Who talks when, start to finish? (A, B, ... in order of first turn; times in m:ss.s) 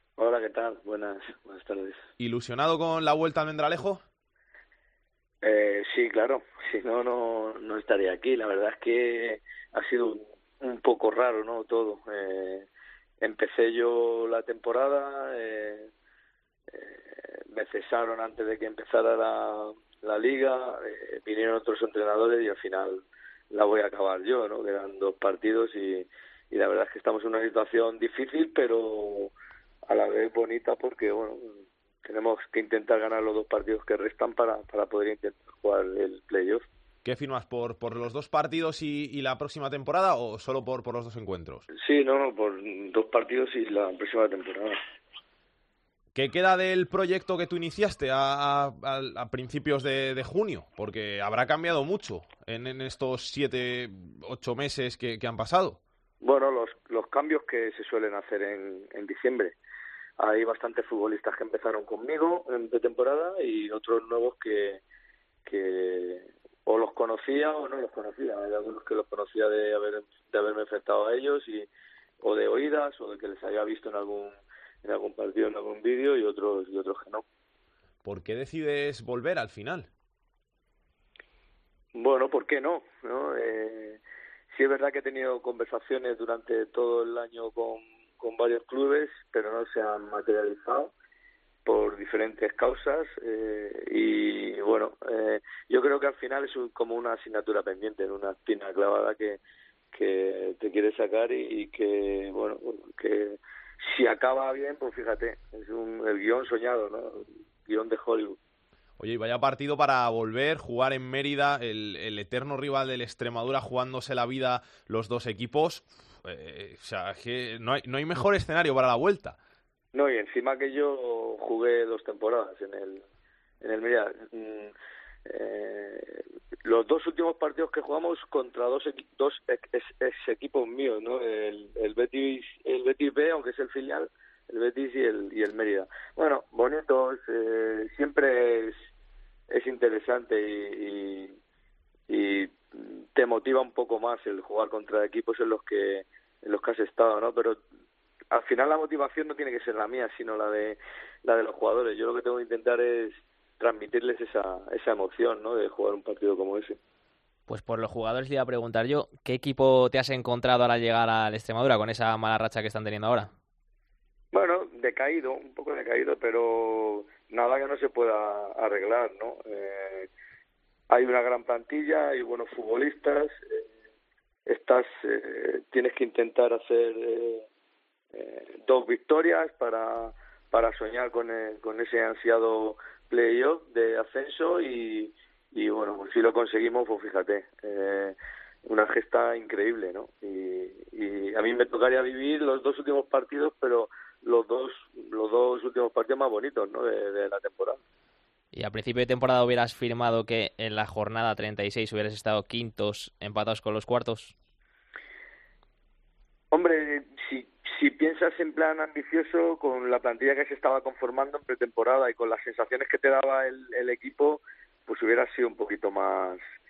0:00.2-0:02.0 A
0:02.2-0:04.0 B
0:05.4-0:12.7 A
0:13.2-0:15.9 A
0:16.7-0:29.3 A
0:29.9-0:36.6 A
0:37.0-0:41.6 B
0:41.7-0:44.8 A
0:46.1-0:55.8 B
0:56.2-0:59.5 A
1:00.2-1:04.8 A
1:05.4-1:11.7 A
1:12.2-1:17.2 A
1:18.0-1:19.9 B
1:21.9-1:24.0 A
1:24.5-1:30.9 A
1:31.6-1:39.4 A
1:39.9-1:48.4 A
1:49.0-1:59.4 B
1:59.9-2:03.0 A
2:03.6-2:04.7 A
2:05.2-2:18.8 A
2:19.5-2:21.4 A
2:22.1-2:27.6 A
2:28.3-2:36.8 A
2:37.5-2:43.3 C
2:44.3-2:50.1 A
2:50.9-2:53.7 A
2:54.5-2:57.4 A
2:58.1-3:17.8 A
3:18.5-3:24.3 C
3:26.5-3:36.4 A